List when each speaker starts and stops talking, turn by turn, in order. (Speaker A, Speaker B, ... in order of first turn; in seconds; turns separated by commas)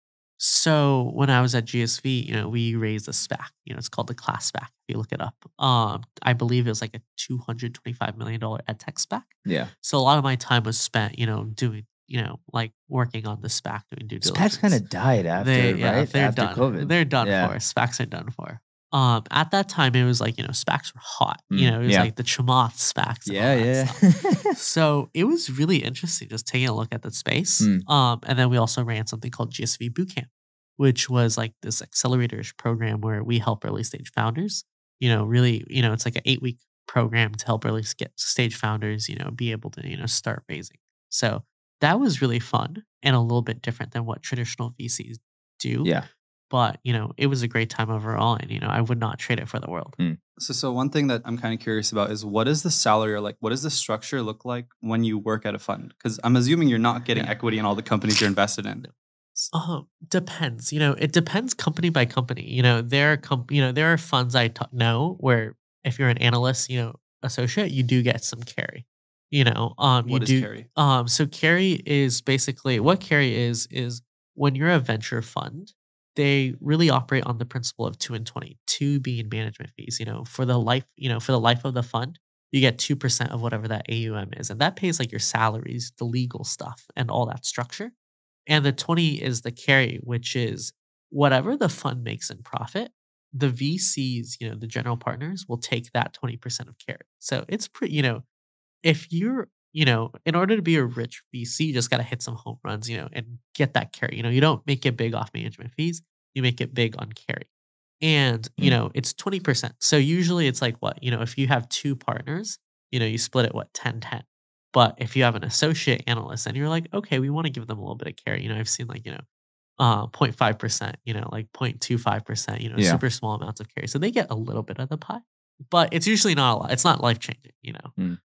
Speaker A: 0.4-14.8, Speaker B: 9.4-9.7, Speaker B: 14.2-17.5, Speaker A: 15.4-50.0, Speaker B: 21.5-22.1, Speaker B: 23.3-24.6, Speaker C: 50.4-59.5, Speaker A: 57.1-57.4, Speaker A: 59.5-87.9, Speaker C: 70.1-70.7, Speaker A: 88.5-98.2, Speaker A: 98.8-107.5, Speaker A: 108.0-119.2, Speaker A: 119.8-127.9, Speaker B: 122.8-123.0